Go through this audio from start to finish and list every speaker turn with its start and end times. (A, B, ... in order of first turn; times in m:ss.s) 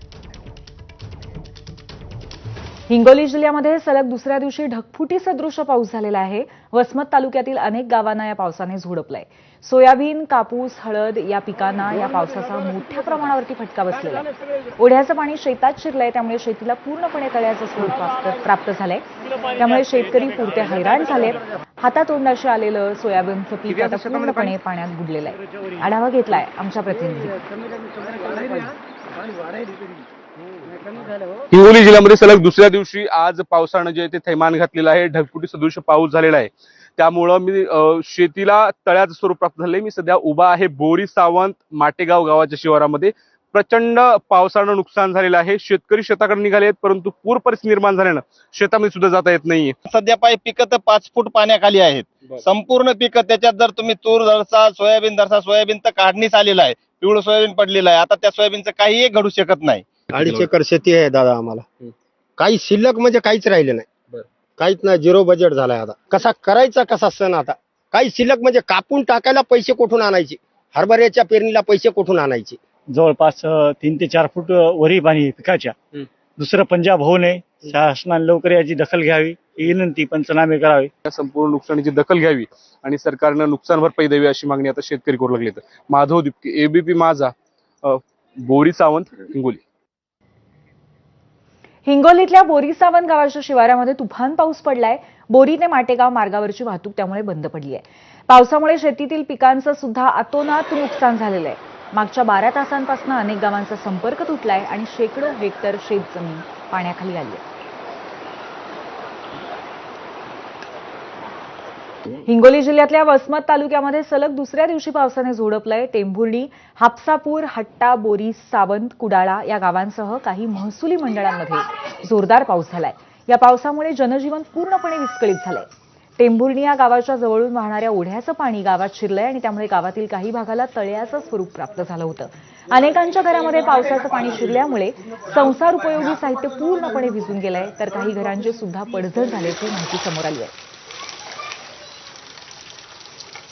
0:02.9-0:19.0 A
0:19.6-0:27.4 A
0:23.8-0:24.5 B
0:31.5-0:49.8 B
0:49.8-1:00.4 C
1:00.1-1:01.6 D
1:02.4-1:03.8 D
1:04.6-1:12.6 D
1:12.9-1:20.9 E
1:21.0-1:29.6 B
1:31.8-1:47.4 A
1:52.1-2:20.5 A